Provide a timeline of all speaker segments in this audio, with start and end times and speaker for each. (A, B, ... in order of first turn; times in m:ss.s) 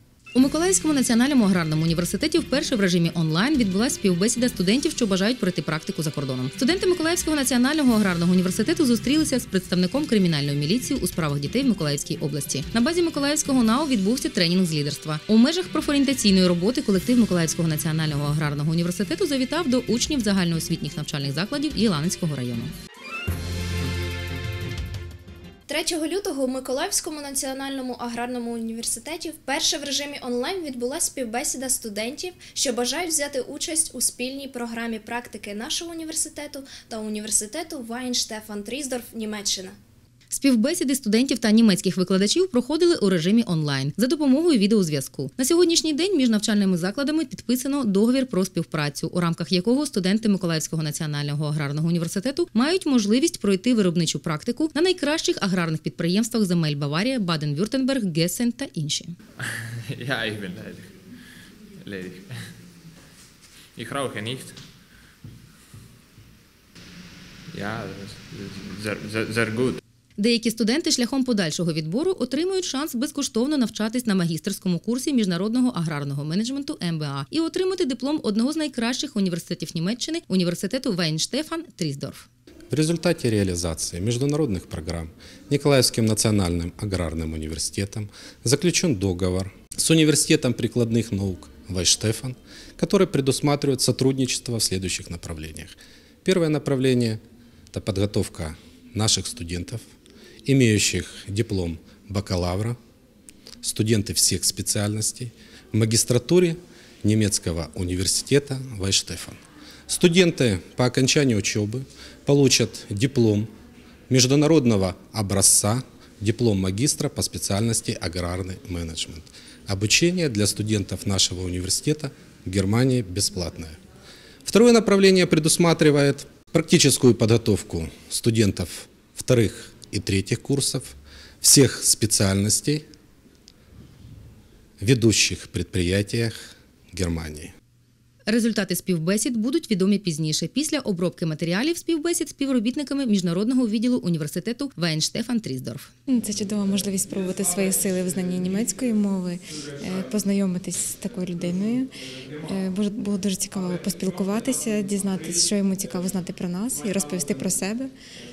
0:00.3-0:22.7 A
0:25.7-0:39.8 B
0:40.3-0:59.1 A
0:59.9-1:00.9 C
1:01.8-1:02.4 C
1:03.8-1:04.6 C
1:07.5-1:09.8 C
1:10.2-1:22.3 A
1:22.7-1:37.2 D
1:37.7-1:39.8 D
1:40.4-1:42.8 D
1:43.6-1:49.4 D
1:49.9-1:53.5 D
1:54.1-2:03.8 D
2:04.4-2:12.8 D
2:14.8-2:17.5 D
2:18.3-2:25.9 A
2:26.1-2:37.9 E